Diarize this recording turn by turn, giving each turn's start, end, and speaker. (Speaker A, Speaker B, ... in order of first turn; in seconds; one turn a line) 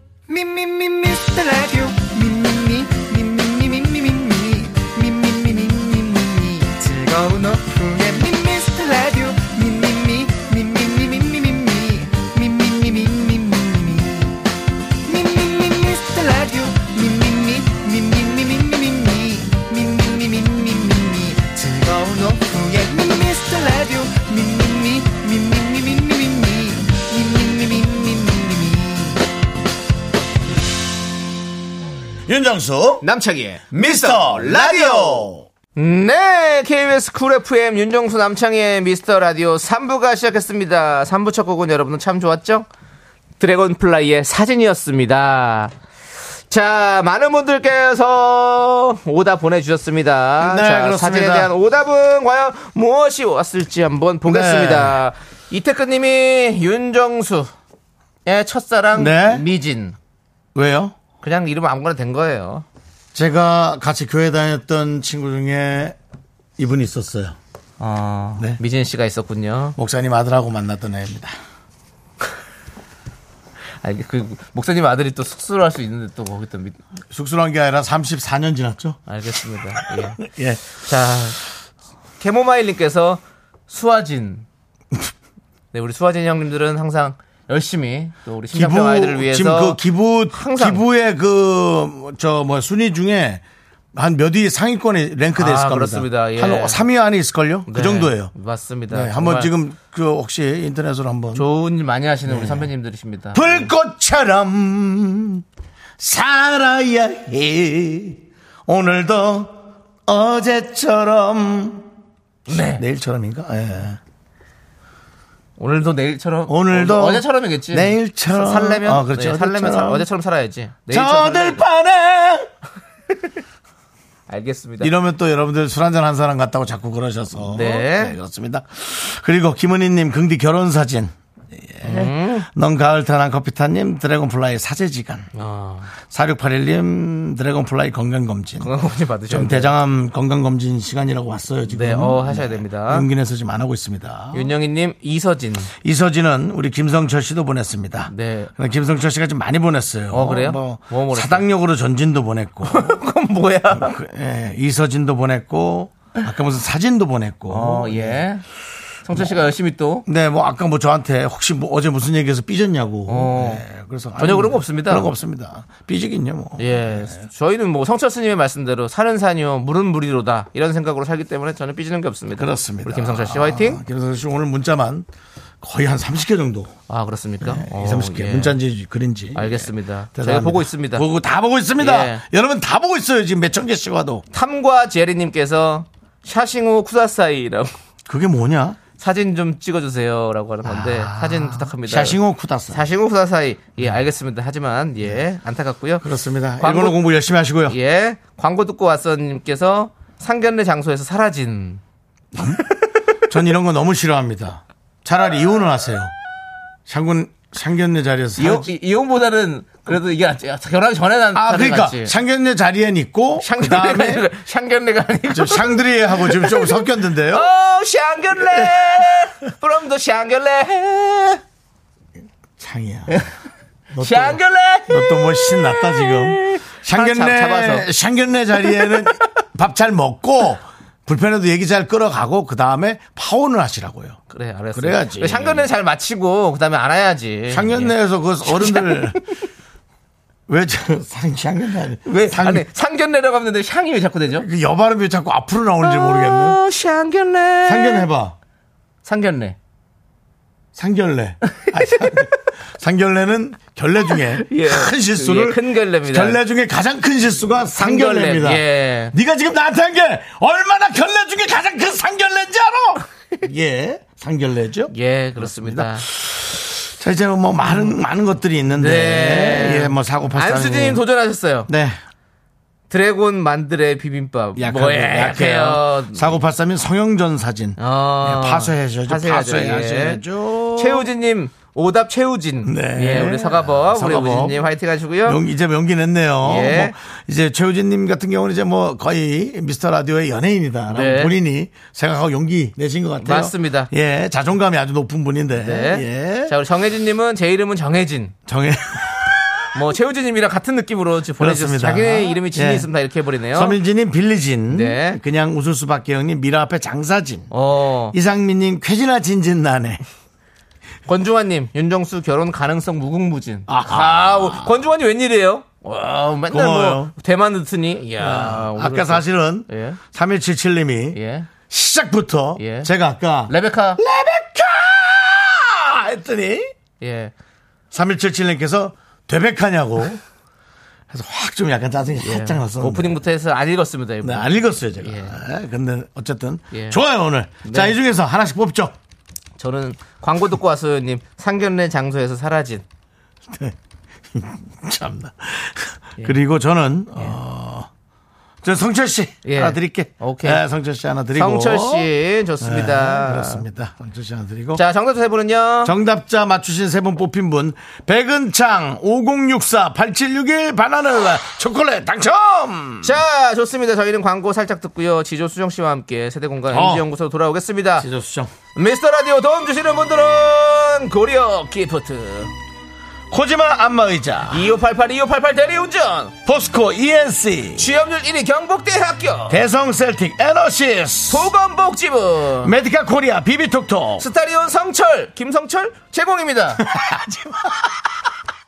Speaker A: 0.3-14.4
Speaker A: 15.0-29.2
Speaker B: 32.2-33.0
Speaker C: 33.0-42.6
Speaker B: 33.7-35.5
Speaker C: 43.4-45.7
Speaker C: 46.5-57.5
Speaker B: 50.4-51.5
Speaker B: 54.2-55.0
Speaker C: 58.2-60.0
Speaker B: 58.9-59.4
Speaker B: 60.5-61.0
Speaker C: 61.2-62.6
Speaker B: 63.1-66.0
Speaker B: 66.6-67.4
Speaker C: 67.8-69.8
Speaker B: 69.8-71.3
Speaker C: 73.8-76.8
Speaker B: 77.1-79.0
Speaker C: 79.1-80.2
Speaker B: 79.8-80.6
Speaker C: 80.7-81.4
Speaker C: 82.2-84.5
Speaker C: 85.7-89.8
Speaker B: 88.5-93.4
Speaker C: 90.3-90.8
Speaker B: 93.9-98.3
Speaker C: 95.4-96.8
Speaker C: 97.7-99.5
Speaker B: 98.9-101.5
Speaker C: 101.3-103.7
Speaker B: 102.3-102.7
Speaker B: 103.3-105.4
Speaker B: 106.0-111.8
Speaker C: 112.5-112.8
Speaker B: 112.5-114.0
Speaker C: 115.6-121.6
Speaker B: 116.5-120.1
Speaker B: 120.9-122.5
Speaker C: 124.3-124.9
Speaker B: 124.8-135.3
Speaker C: 127.5-128.1
Speaker C: 131.8-132.5
Speaker C: 135.3-135.9
Speaker B: 136.1-138.7
Speaker C: 138.6-139.7
Speaker B: 139.3-144.5
Speaker C: 141.7-143.1
Speaker C: 144.3-145.7
Speaker B: 145.8-153.0
Speaker C: 148.1-148.5
Speaker C: 150.1-151.5
Speaker C: 152.7-154.0
Speaker B: 153.8-158.2
Speaker C: 157.5-158.4
Speaker C: 159.0-160.1
Speaker B: 160.1-167.2
Speaker C: 163.1-163.6
Speaker C: 164.2-165.1
Speaker C: 166.6-173.8
Speaker B: 172.3-175.1
Speaker B: 175.6-176.7
Speaker C: 176.9-178.6
Speaker B: 177.4-184.2
Speaker C: 179.3-181.1
Speaker C: 181.8-182.2
Speaker C: 184.3-187.7
Speaker B: 188.1-188.8
Speaker C: 189.0-192.2
Speaker B: 190.6-192.8
Speaker C: 192.7-196.0
Speaker B: 196.0-197.8
Speaker C: 196.6-197.0
Speaker C: 197.7-201.8
Speaker B: 203.3-206.1
Speaker B: 206.9-208.7
Speaker C: 208.4-212.1
Speaker B: 211.3-214.2
Speaker C: 213.4-221.4
Speaker B: 215.3-217.5
Speaker B: 218.5-219.1
Speaker B: 222.6-223.2
Speaker B: 223.9-234.2
Speaker C: 224.0-227.8
Speaker C: 234.3-239.2
Speaker B: 234.7-235.7
Speaker B: 237.5-239.2
Speaker B: 240.5-242.7
Speaker C: 242.1-244.5
Speaker B: 244.3-246.6
Speaker C: 245.8-248.1
Speaker B: 247.6-248.3
Speaker C: 249.0-249.6
Speaker B: 250.7-271.0
Speaker C: 251.5-252.3
Speaker C: 254.4-256.4
Speaker C: 257.8-259.1
Speaker C: 264.9-266.1
Speaker C: 268.8-271.7
Speaker B: 271.7-272.0
Speaker C: 272.9-276.4
Speaker B: 274.6-281.1
Speaker C: 277.8-280.2
Speaker C: 280.7-285.4
Speaker B: 282.6-284.6
Speaker B: 285.2-296.6
Speaker C: 286.4-286.9
Speaker C: 290.9-291.3
Speaker C: 293.2-293.9
Speaker C: 295.6-298.3
Speaker B: 298.5-299.7
Speaker C: 299.7-303.8
Speaker B: 301.4-302.9
Speaker B: 303.5-307.5
Speaker C: 304.7-305.2
Speaker C: 307.5-308.1
Speaker B: 308.1-310.0
Speaker C: 311.1-320.0
Speaker B: 313.7-314.8
Speaker B: 316.5-317.1
Speaker B: 318.2-326.7
Speaker C: 321.1-321.5
Speaker C: 322.6-322.9
Speaker C: 323.5-324.0
Speaker C: 327.0-327.3
Speaker B: 327.9-330.2
Speaker B: 331.1-333.1
Speaker C: 332.2-335.4
Speaker B: 334.2-338.9
Speaker C: 336.7-337.0
Speaker C: 337.6-337.9
Speaker C: 339.6-342.8
Speaker B: 343.5-343.7
Speaker B: 344.3-347.9
Speaker B: 348.6-354.8
Speaker C: 349.4-350.6
Speaker C: 351.3-353.6
Speaker C: 354.7-355.9
Speaker B: 355.8-363.1
Speaker C: 363.0-368.1
Speaker B: 366.7-367.1
Speaker B: 368.0-368.5
Speaker C: 368.7-372.5
Speaker B: 373.3-374.7
Speaker C: 374.5-376.3
Speaker B: 376.4-377.9
Speaker C: 377.8-379.6
Speaker B: 379.5-381.5
Speaker C: 381.3-382.7
Speaker B: 382.6-384.2
Speaker C: 384.2-386.8
Speaker B: 386.8-387.8